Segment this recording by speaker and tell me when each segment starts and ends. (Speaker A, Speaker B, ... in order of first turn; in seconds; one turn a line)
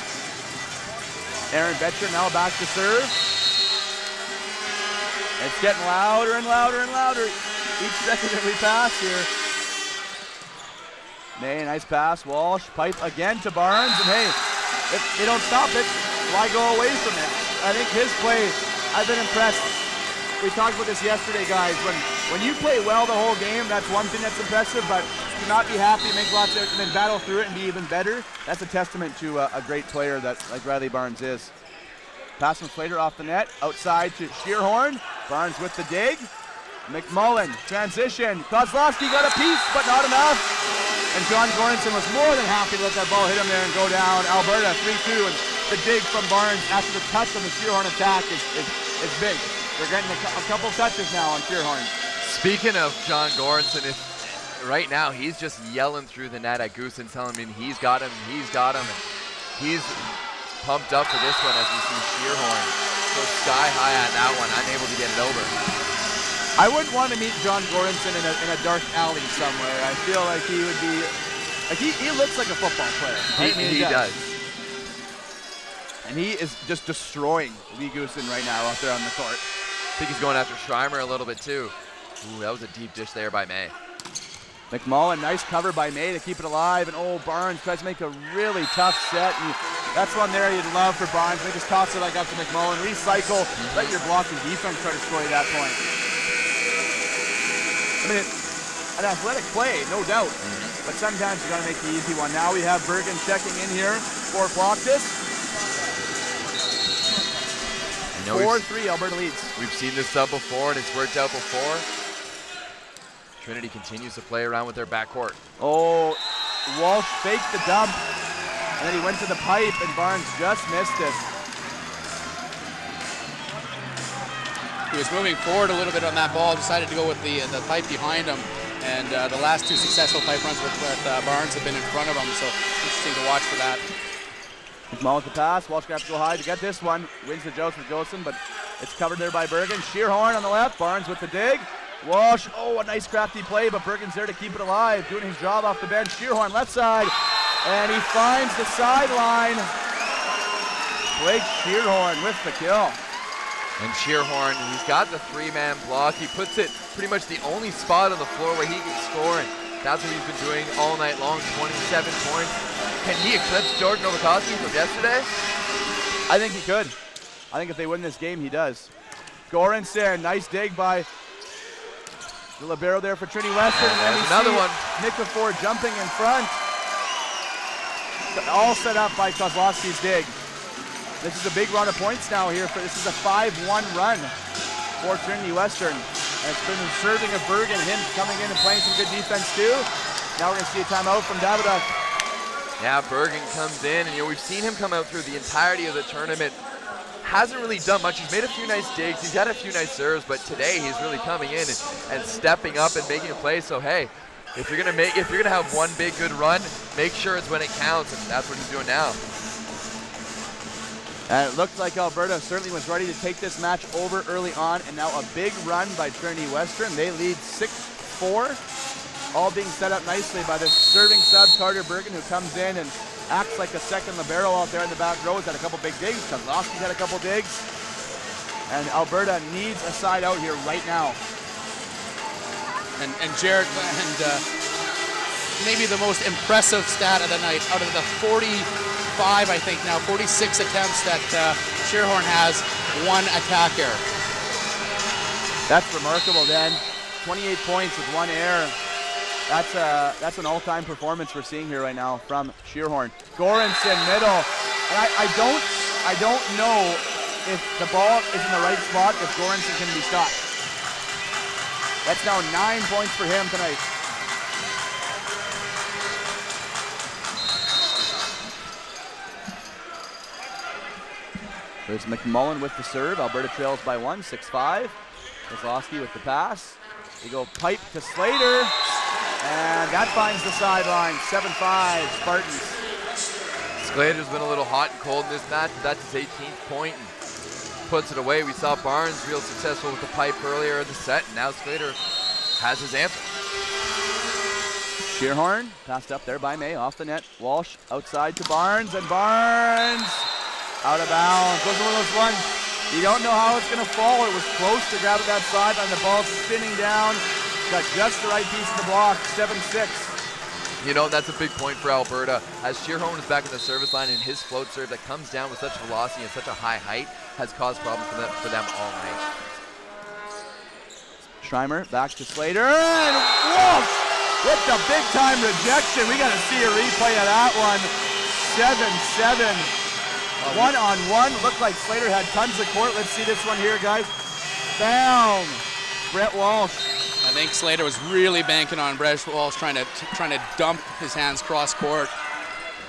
Speaker A: 1.5-3.1
Speaker A: 5.4-9.3
Speaker A: 11.4-14.4
Speaker A: 14.9-19.7
Speaker A: 20.4-31.5
Speaker A: 32.4-36.3
Speaker A: 36.9-40.5
Speaker A: 41.1-51.9
Speaker B: 52.2-59.0
Speaker B: 59.6-60.1
Speaker B: 60.6-65.5
Speaker A: 66.6-71.1
Speaker A: 71.7-74.1
Speaker B: 73.4-74.2
Speaker A: 76.0-79.4
Speaker B: 80.0-83.7
Speaker A: 84.7-95.8
Speaker B: 93.6-93.9
Speaker A: 98.0-98.4
Speaker A: 99.0-105.2
Speaker B: 100.4-100.7
Speaker B: 108.1-108.7
Speaker A: 108.3-109.5
Speaker B: 109.6-111.9
Speaker B: 113.4-115.4
Speaker A: 115.6-118.0
Speaker A: 118.8-121.2
Speaker C: 124.9-133.8
Speaker A: 134.9-149.7
Speaker A: 151.1-153.0
Speaker B: 153.8-165.3
Speaker A: 166.3-167.0
Speaker A: 167.5-168.9
Speaker A: 169.5-171.1
Speaker A: 172.6-176.6
Speaker B: 173.7-174.8
Speaker A: 178.3-180.3
Speaker A: 181.2-184.3
Speaker A: 185.0-191.9
Speaker B: 192.8-196.6
Speaker B: 197.2-209.2
Speaker A: 211.3-218.6
Speaker A: 219.3-227.6
Speaker A: 228.7-231.2
Speaker C: 233.0-234.4
Speaker C: 235.6-244.0
Speaker A: 245.7-248.8
Speaker A: 249.5-260.4
Speaker A: 262.0-263.9
Speaker A: 271.9-275.0
Speaker A: 275.5-278.7
Speaker A: 279.4-282.8
Speaker B: 283.8-287.1
Speaker B: 287.9-292.0
Speaker B: 292.6-293.4
Speaker A: 295.0-300.3
Speaker A: 300.8-310.1
Speaker B: 310.8-319.2
Speaker A: 321.4-329.7
Speaker C: 330.4-330.7
Speaker A: 330.5-334.1
Speaker A: 334.8-336.9
Speaker C: 337.2-342.1